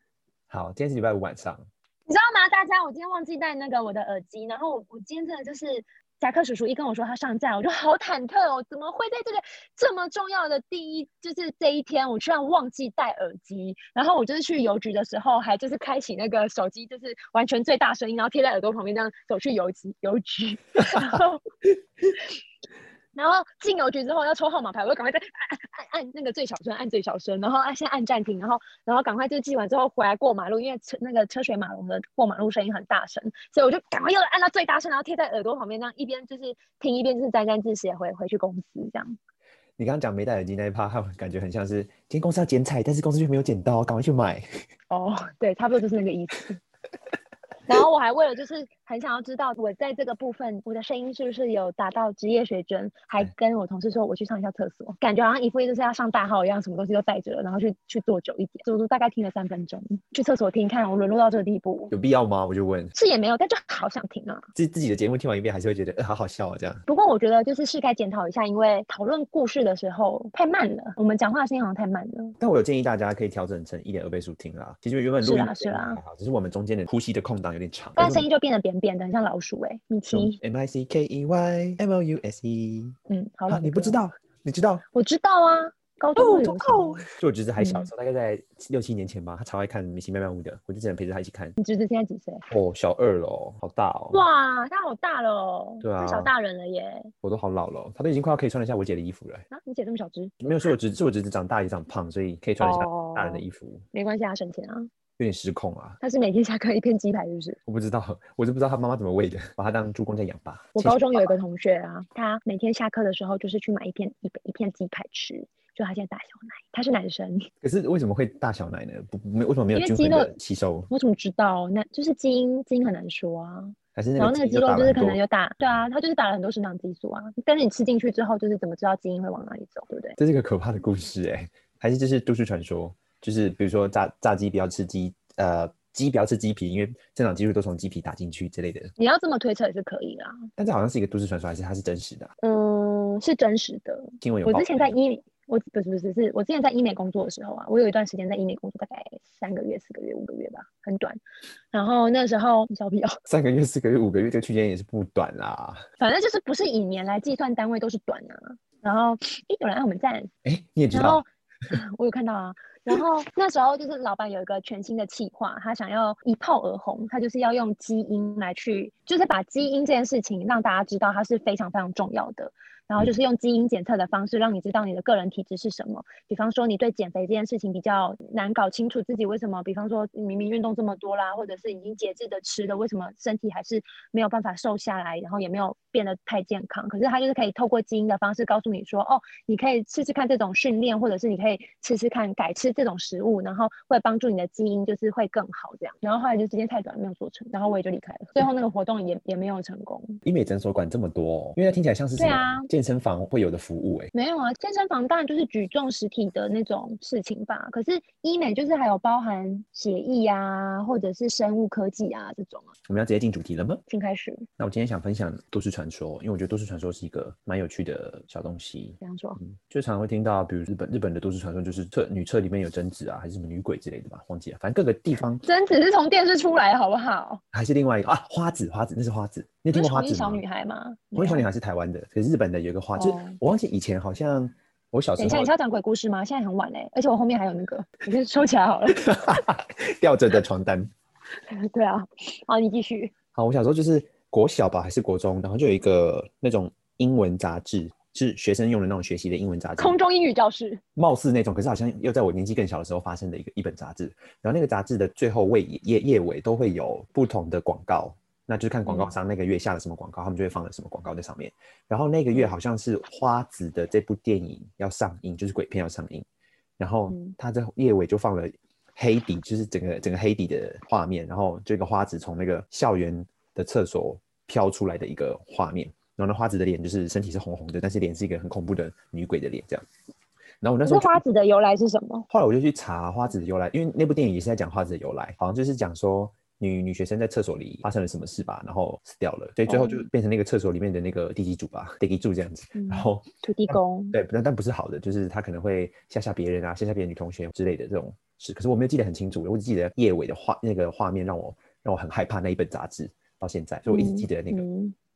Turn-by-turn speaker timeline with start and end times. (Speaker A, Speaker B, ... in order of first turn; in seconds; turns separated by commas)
Speaker A: 0.5-1.6, Speaker B: 2.1-21.4, Speaker B: 23.1-39.2, Speaker A: 39.8-44.4, Speaker B: 44.9-46.6, Speaker B: 47.7-61.9, Speaker A: 61.9-62.9, Speaker B: 62.9-64.5, Speaker A: 64.5-66.8, Speaker B: 66.9-72.3, Speaker A: 72.4-78.3, Speaker B: 75.2-76.0, Speaker B: 78.0-80.4, Speaker A: 80.1-83.0, Speaker B: 83.1-84.0, Speaker A: 83.5-84.8, Speaker B: 84.9-87.0, Speaker A: 86.2-91.5, Speaker B: 87.6-87.9, Speaker B: 91.6-92.5, Speaker A: 92.5-94.2, Speaker B: 94.1-97.1, Speaker A: 95.8-96.3, Speaker A: 97.2-99.5, Speaker B: 99.5-100.3, Speaker A: 100.4-103.8, Speaker B: 102.6-104.9, Speaker A: 105.2-106.0, Speaker B: 106.0-107.6, Speaker A: 107.7-111.3, Speaker B: 110.7-117.5, Speaker A: 117.6-120.9, Speaker B: 119.7-120.3, Speaker B: 120.9-130.2, Speaker A: 124.0-125.2, Speaker A: 130.2-138.9, Speaker B: 139.0-140.5, Speaker A: 140.6-142.3, Speaker B: 142.4-151.2, Speaker A: 144.2-144.9, Speaker B: 151.7-153.2, Speaker A: 153.2-155.8, Speaker B: 156.0-160.3, Speaker A: 160.4-161.2, Speaker B: 160.9-200.2, Speaker A: 200.2-204.1, Speaker B: 202.2-202.7, Speaker B: 204.1-212.7, Speaker A: 212.9-213.8, Speaker B: 213.9-214.5, Speaker A: 214.6-225.4, Speaker B: 219.0-219.4, Speaker B: 225.4-227.4, Speaker A: 227.5-230.4, Speaker B: 229.7-231.4, Speaker A: 231.1-235.5, Speaker B: 233.0-233.4, Speaker B: 235.2-239.1, Speaker A: 238.9-240.9, Speaker B: 241.5-243.1, Speaker A: 243.3-249.9, Speaker B: 249.8-250.8, Speaker A: 250.9-266.2, Speaker B: 258.9-259.1, Speaker A: 266.8-279.8, Speaker B: 267.1-267.4, Speaker A: 280.6-281.2, Speaker B: 280.8-282.3, Speaker A: 282.3-304.7, Speaker B: 289.7-290.0, Speaker B: 292.7-294.1, Speaker B: 303.9-304.9